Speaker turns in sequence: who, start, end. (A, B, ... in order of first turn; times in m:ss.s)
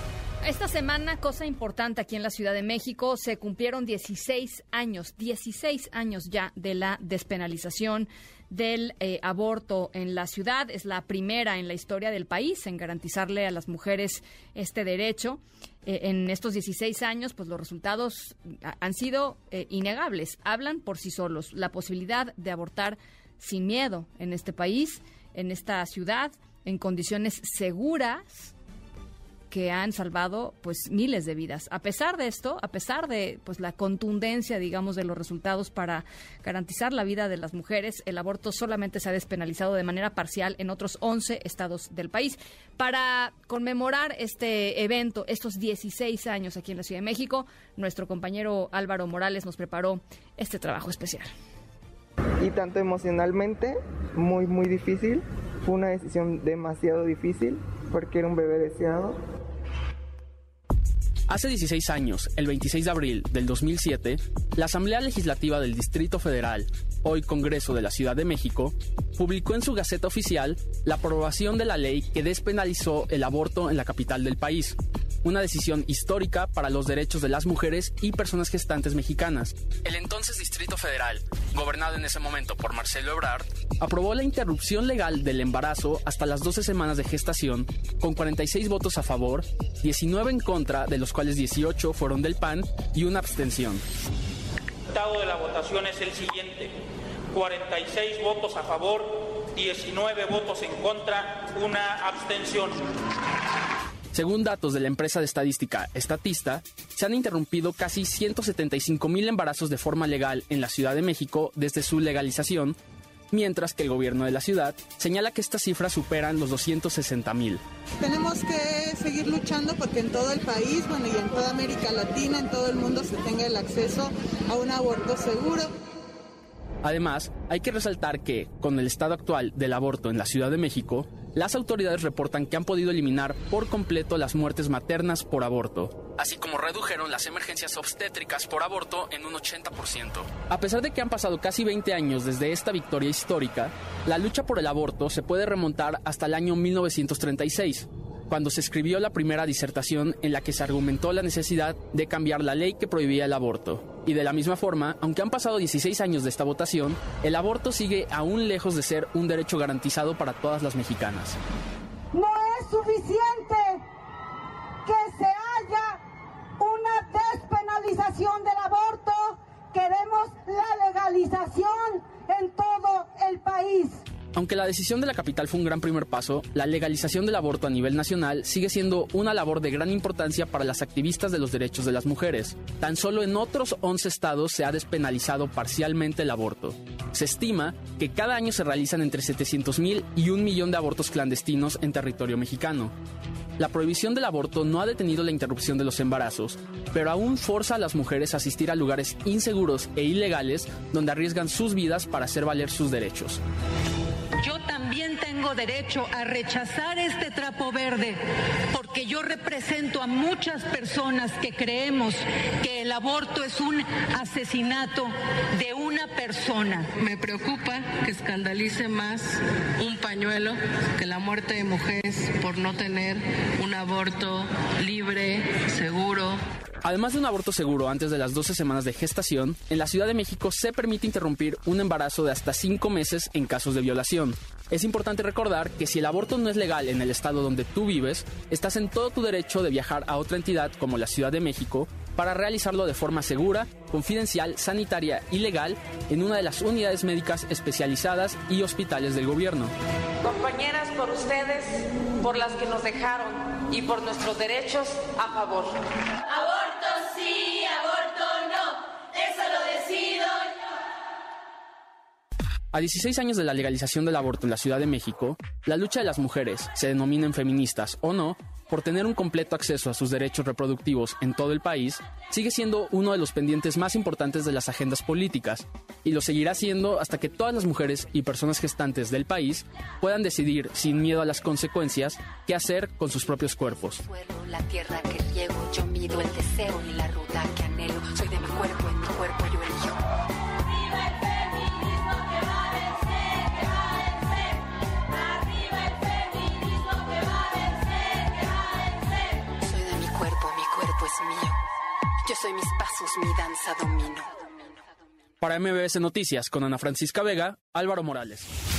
0:00.4-0:28.5 A
0:29.5-0:51.3 A
0:52.4-0:59.2 B
1:01.3-1:33.8 C
1:34.9-1:36.7 D
1:37.3-1:42.8 D
1:44.1-1:52.8 C
1:53.3-1:57.6 C
1:58.0-2:05.7 E
2:06.8-2:41.4 C
2:42.1-2:43.8 F
2:44.8-2:46.0 F
2:46.6-2:54.0 F
2:54.3-3:12.9 C
3:13.6-3:23.4 C
3:24.4-3:36.9 G
3:37.0-3:46.4 H
3:46.8-4:09.7 C
4:10.2-4:15.8 I
4:16.3-4:20.5 I
4:22.7-4:44.0 C
4:44.0-4:50.0 J
4:59.6-5:01.6 J
5:02.2-5:04.4 J
5:05.4-5:08.4 C